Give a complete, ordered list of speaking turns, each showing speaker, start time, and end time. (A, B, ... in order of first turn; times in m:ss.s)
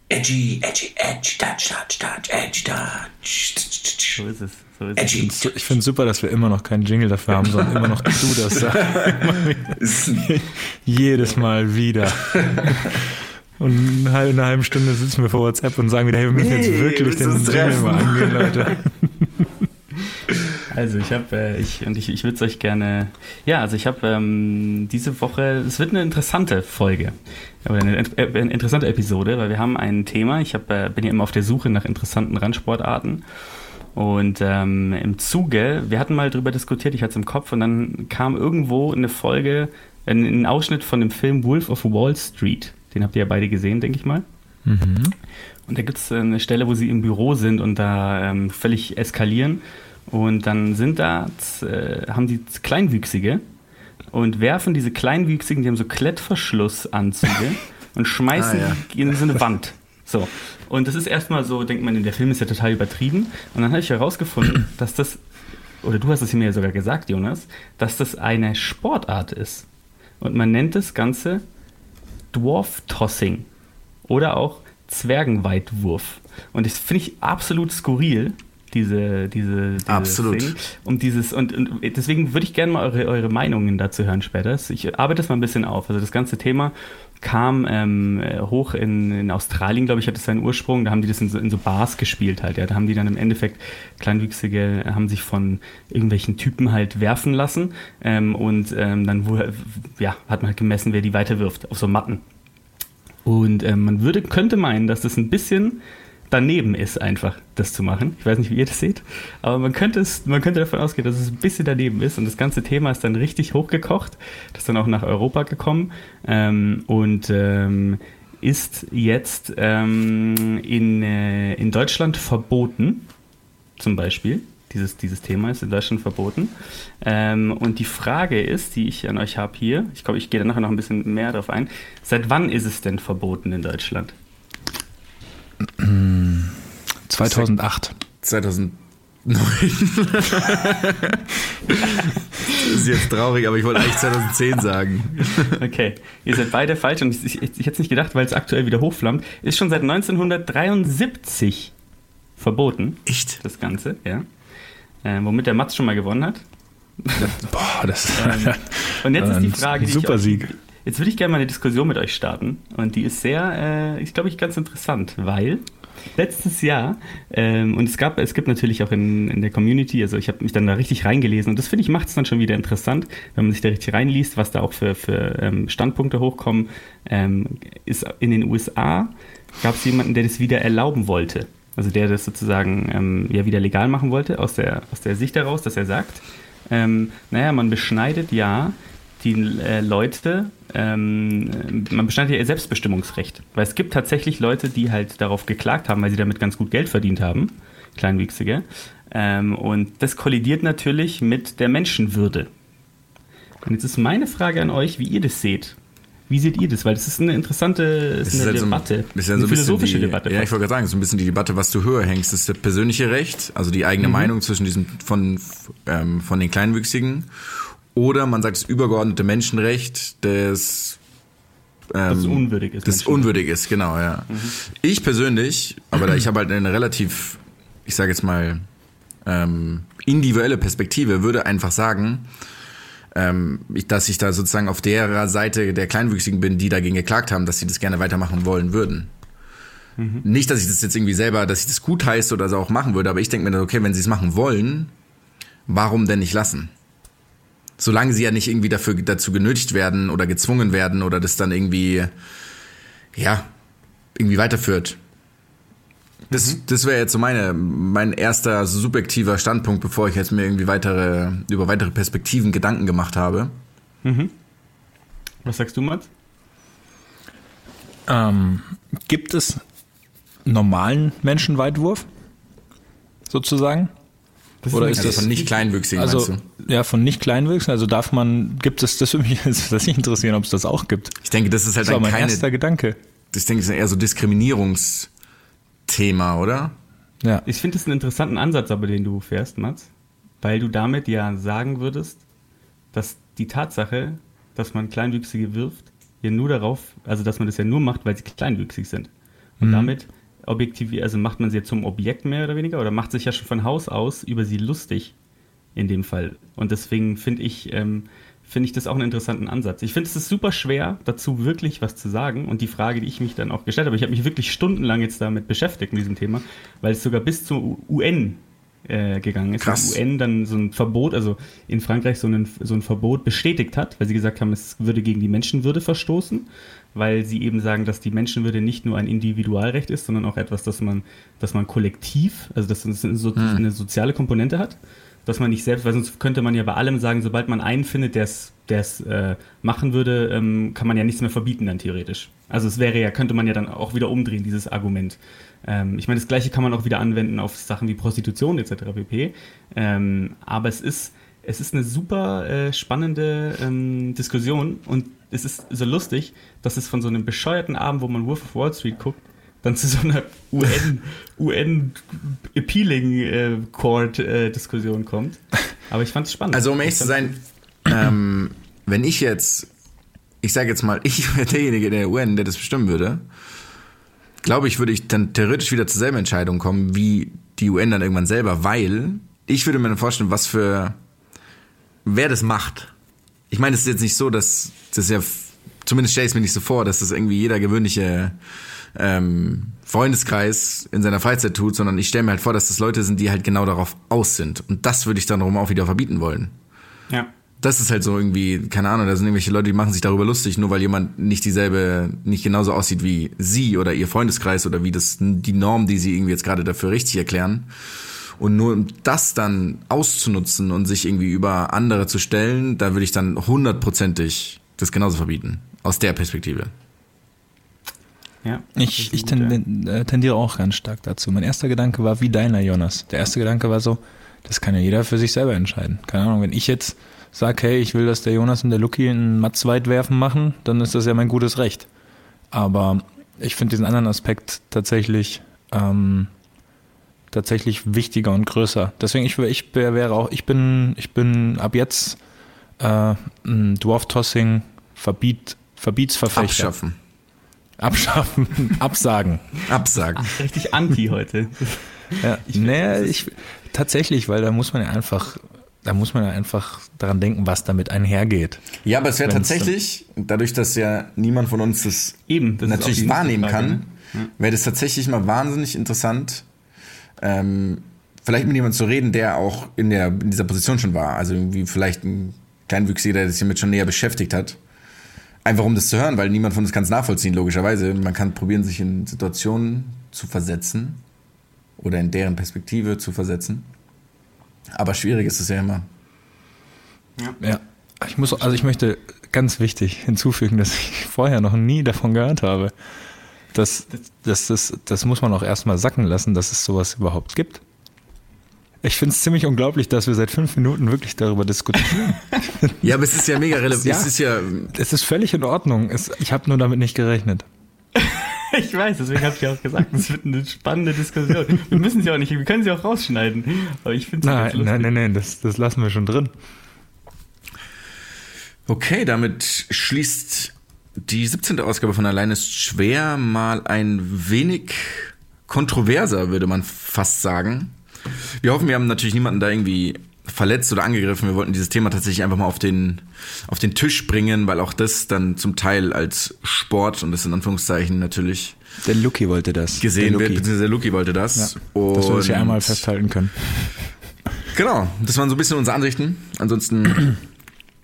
0:00.1-0:04.2 A
0:04.2-0:05.2 B
0:05.0-0:05.5 A
0:05.2-0:13.1 C
0:07.4-0:10.3 A
0:12.2-0:13.0 A
0:13.6-0:19.5 C
0:16.3-0:18.8 A
0:20.7-0:33.2 B
0:34.0-0:44.2 B
0:44.6-0:45.2 C
0:45.7-0:53.4 B
0:54.1-1:05.2 B
0:58.3-0:58.8 A
1:05.8-1:09.7 B
1:10.2-1:11.4 B
1:12.3-1:13.5 B
1:14.1-1:42.2 B
1:19.9-1:20.6 A
1:43.3-2:03.1 B
2:03.8-2:14.2 B
2:15.7-2:17.9 C
2:17.2-2:17.5 A
2:18.2-2:25.6 A
2:25.6-2:31.7 B
2:32.4-2:34.3 B
2:33.1-2:33.4 A
2:35.0-2:36.4 B
2:37.0-2:37.4 B
2:37.2-2:40.5 C
2:38.1-2:45.6 B
2:46.2-3:22.5 B
3:23.6-3:25.8 B
3:26.3-3:30.5 B
3:28.3-3:37.3 A
3:34.0-3:34.3 B
3:37.9-3:41.0 A
3:41.9-3:48.6 A
3:42.1-3:43.3 B
3:44.3-3:44.5 B
3:49.2-3:52.3 A
3:53.1-3:59.1 A
4:00.0-4:00.2 B
4:00.2-4:04.9 A
4:05.7-4:06.7 A
4:07.8-4:12.1 A
4:13.1-4:13.5 A
4:14.2-4:15.0 A
4:16.3-4:16.6 B
4:16.3-4:23.5 A
4:24.0-4:24.3 B
4:25.4-4:26.1 B
4:28.1-4:29.6 C
4:30.5-4:32.1 C
4:33.3-4:33.9 C
4:34.6-4:35.5 B
4:34.7-4:35.4 C
4:35.0-4:36.4 A
4:36.0-4:41.2 C
4:41.2-4:42.5 A
4:41.8-4:43.0 C
4:43.3-4:45.1 A
4:45.9-4:46.8 A
4:47.4-4:49.9 B
4:50.4-4:52.2 B
4:52.9-5:05.1 B
4:59.6-4:59.9 C
5:05.8-6:07.2 B
5:19.6-5:20.0 A
5:33.4-5:33.6 A
6:06.5-6:09.7 A
6:10.4-6:13.2 A
6:14.4-6:21.0 A
6:22.0-6:22.9 A
6:23.5-6:28.4 A
6:29.0-6:36.5 A
6:37.6-6:47.7 A
6:48.4-6:56.7 A
6:58.4-6:59.6 B
6:58.8-7:11.9 C
7:12.5-7:16.3 C
7:17.3-7:22.2 C
7:22.8-7:26.7 C
7:26.3-7:27.0 A
7:27.8-7:29.5 C
7:29.7-7:30.3 A
7:30.2-7:33.3 B
7:32.2-7:38.7 C
7:38.8-7:46.4 A
7:39.3-7:39.7 C
7:42.3-7:44.3 B
7:47.2-7:54.6 A
7:55.4-8:01.0 A
8:01.8-8:03.7 A
8:04.7-8:05.9 A
8:07.4-8:12.7 C
8:13.5-8:17.6 C
8:18.8-8:22.8 C
8:22.8-8:24.7 A
8:23.7-8:24.1 C
8:24.7-8:27.5 C
8:28.0-8:34.9 B
8:34.2-8:36.3 C
8:38.7-8:47.7 A
8:48.4-8:58.6 A
8:58.8-9:00.4 C
8:59.8-9:02.8 A
9:01.4-9:03.4 C
9:04.5-9:07.2 A